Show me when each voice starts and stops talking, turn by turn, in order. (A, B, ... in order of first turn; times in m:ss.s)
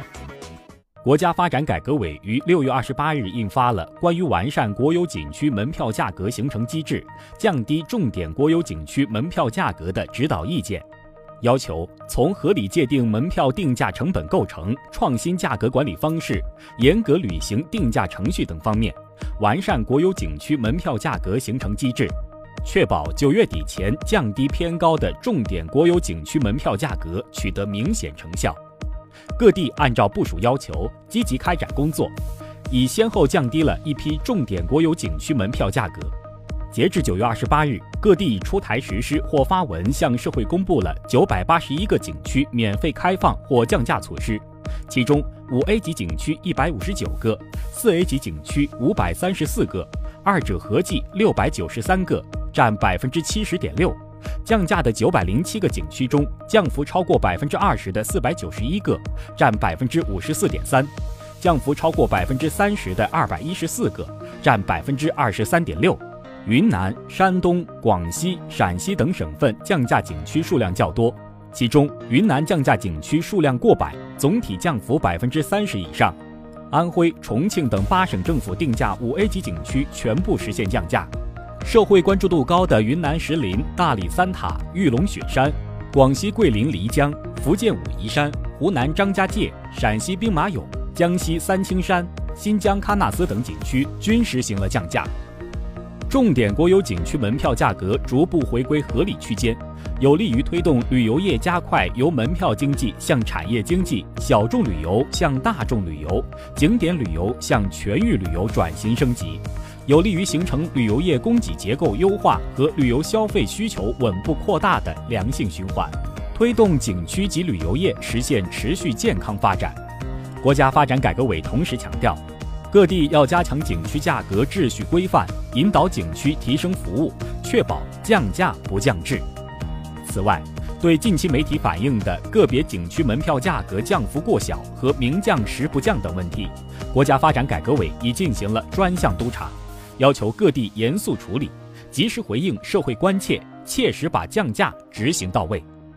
0:01.0-0:10.8 A
0:11.4-0:28.6 A
0:29.4-0:32.1 A
0:32.7-0:36.1 A
0:36.7-1:16.2 A
1:16.7-1:21.1 A
1:21.6-1:35.1 A
1:36.1-1:59.8 A
2:00.4-2:09.2 A
2:10.0-2:25.7 A